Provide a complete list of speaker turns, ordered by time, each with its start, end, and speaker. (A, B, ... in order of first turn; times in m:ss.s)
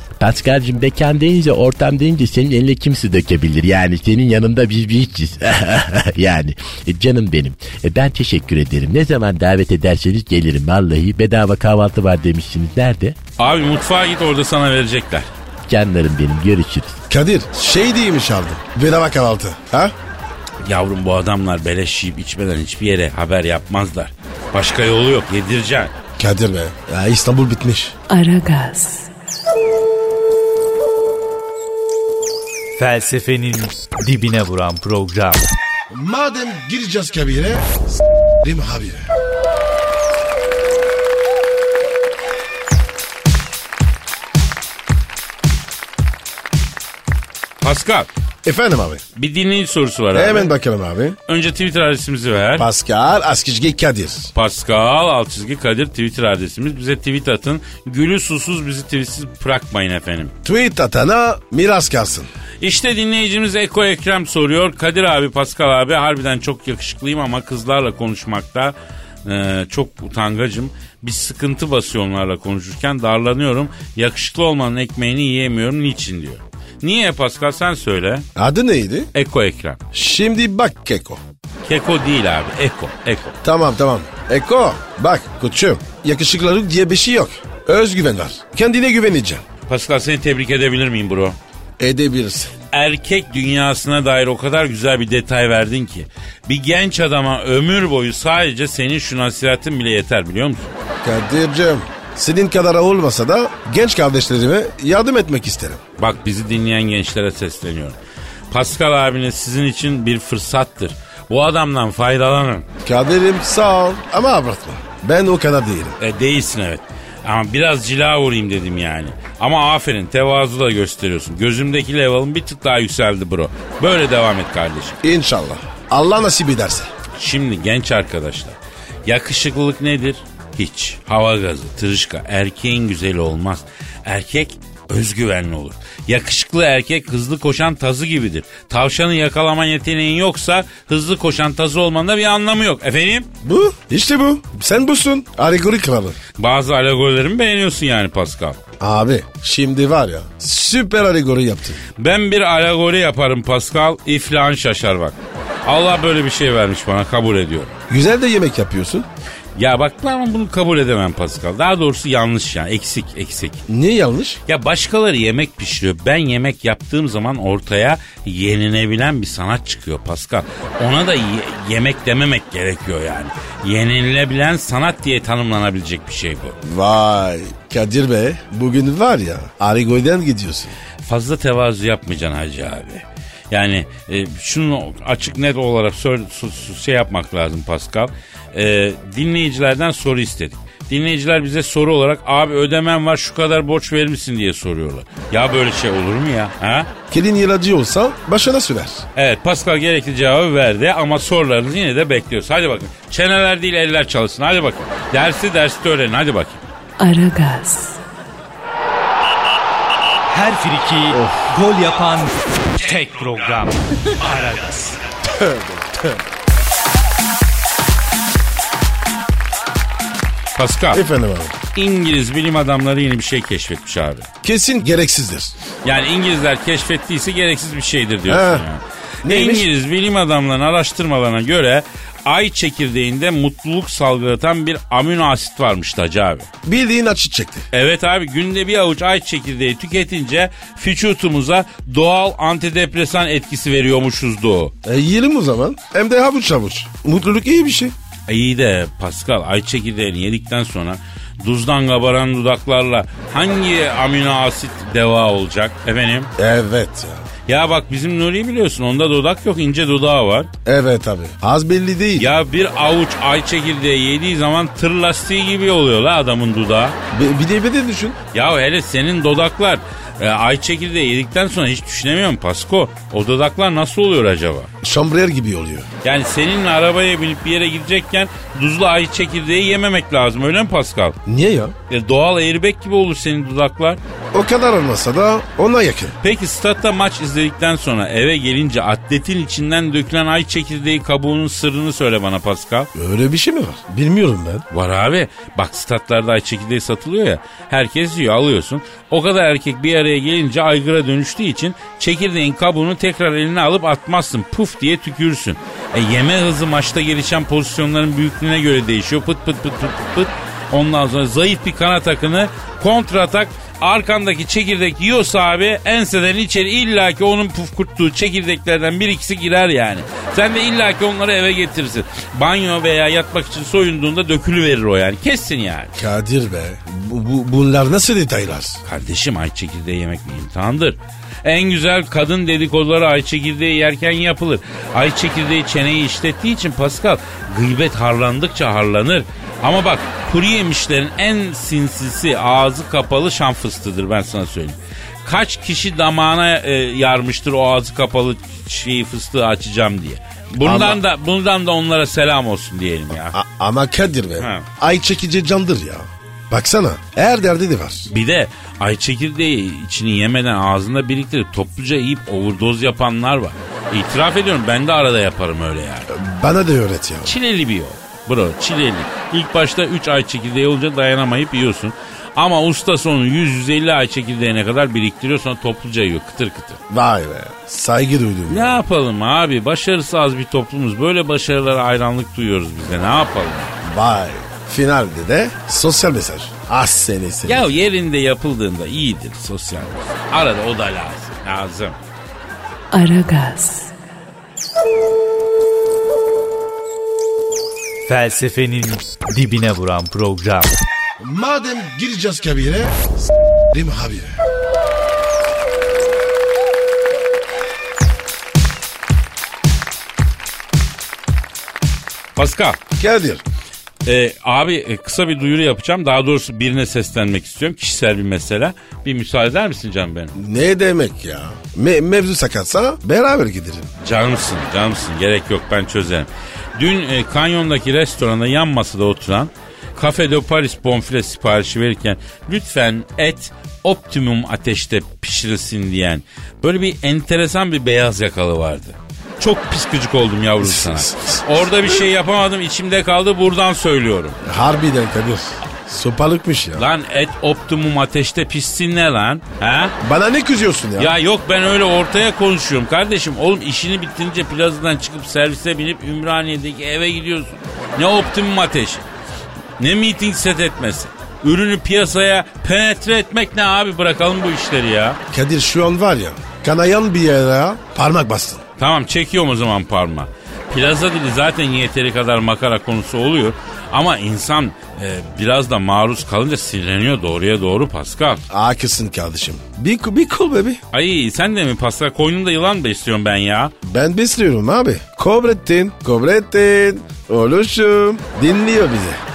0:00.2-0:13.2 A
0:13.4-0:15.3 B
0:15.7-0:17.0 A
0:17.1-0:19.9 C
0:20.6-0:25.9 B
0:26.2-0:27.9 C
0:28.1-0:29.1 D
0:32.8-0:35.4 E
0:35.9-0:37.7 C
0:38.4-0:39.0 C
0:47.6-0:48.1 B
0:48.4-0:49.0 C
0:49.2-0:50.5 B
0:50.1-0:51.2 C
0:51.3-0:52.7 B
0:52.6-0:54.3 C
0:54.3-1:00.3 B
1:00.4-1:02.3 C
1:02.6-1:18.2 B
1:18.4-1:19.1 C
1:19.1-1:19.8 B
1:19.9-1:21.2 C
1:21.6-1:23.4 B
1:23.4-1:29.4 C
1:29.7-1:31.4 B
1:31.8-1:32.5 C
1:32.7-1:40.7 B
1:41.0-1:45.8 C
1:46.0-1:48.0 B
1:48.5-1:52.6 B
1:52.8-1:56.0 C
1:56.0-2:05.0 B
2:05.0-2:06.9 C
2:07.2-2:23.3 B
2:23.4-2:26.2 C
2:26.4-2:28.6 B
2:28.8-2:31.8 C
2:32.0-2:37.7 B
2:37.9-2:39.0 C
2:39.6-2:43.6 B
2:43.7-2:44.4 C
2:44.5-2:56.6 B
2:56.6-3:00.7 C
3:01.0-3:16.9 B
3:17.1-3:19.0 C
3:19.2-3:26.7 B
3:27.0-3:28.0 D
3:30.3-3:35.0 E
3:31.1-3:31.5 C
3:35.3-3:36.0 C
3:40.5-3:41.0 B
3:40.9-3:41.6 C
3:41.7-3:44.3 B
3:44.4-3:45.5 C
3:45.8-3:56.5 B
3:48.3-3:48.6 C
3:49.2-3:49.6 C
3:56.6-3:57.7 C
3:57.7-4:04.7 B
4:04.8-4:07.9 C
4:08.3-4:16.3 B
4:16.4-4:17.2 C
4:17.5-4:20.5 B
4:20.6-4:22.3 C
4:22.2-4:27.0 B
4:27.1-4:28.2 C
4:28.3-4:34.7 B
4:34.8-4:35.9 C
4:36.0-4:41.2 B
4:41.2-4:41.7 C
4:41.9-4:44.0 B
4:44.3-4:46.2 C
4:46.2-4:52.9 B
4:52.9-4:54.6 C
4:54.7-5:26.0 B
5:26.0-5:28.8 C
5:28.8-5:53.3 B
5:50.6-5:51.0 C
5:53.3-5:58.1 C
5:54.4-5:54.6 B
5:58.1-6:06.1 B
6:06.1-6:07.3 C
6:07.2-6:16.8 B
6:16.9-6:18.8 C
6:18.5-6:23.8 B
6:23.8-6:27.7 C
6:27.4-6:32.0 B
6:32.9-6:33.9 D
6:38.1-6:40.7 E
6:41.2-6:43.0 C
6:43.7-6:44.3 C
6:52.4-6:52.8 B
6:53.0-6:53.4 C
6:54.0-7:00.3 B
7:00.4-7:03.9 C
7:04.0-7:24.4 B
7:20.6-7:22.0 C
7:24.4-7:26.8 C
7:26.8-7:29.9 B
7:30.0-7:31.1 C
7:31.0-7:39.0 B
7:39.8-7:45.2 B
7:45.3-7:48.6 C
7:48.8-7:58.4 B
7:58.5-8:00.8 C
8:00.9-8:03.7 B
8:03.8-8:09.2 C